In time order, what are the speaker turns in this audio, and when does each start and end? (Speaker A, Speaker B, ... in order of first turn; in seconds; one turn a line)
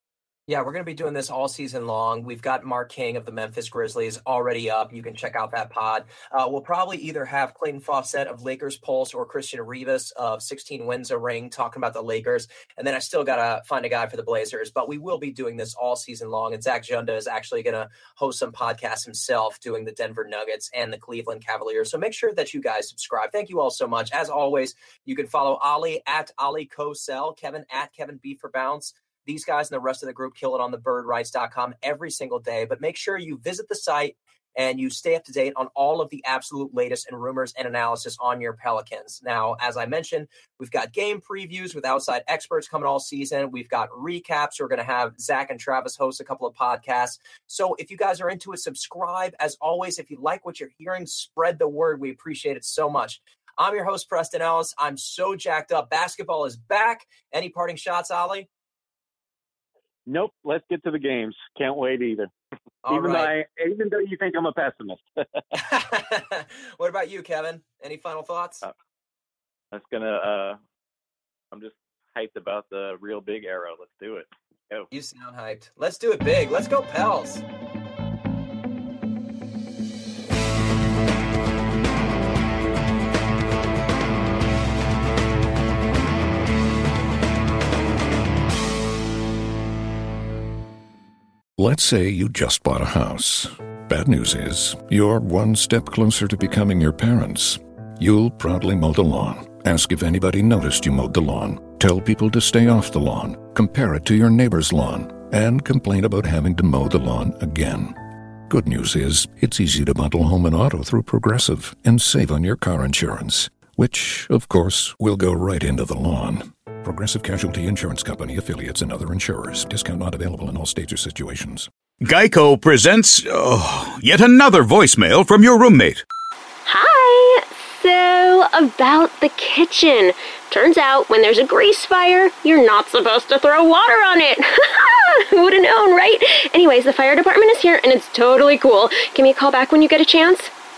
Speaker A: 0.5-58.5
Speaker B: 60.0-62.3
Speaker A: 62.8-63.3
Speaker B: 62.9-65.4
Speaker A: 65.5-68.7
Speaker C: 69.7-70.6
Speaker C: 71.5-74.9
Speaker A: 74.9-77.4
Speaker D: 91.6-121.7
Speaker E: 122.0-126.0
Speaker F: 126.7-140.5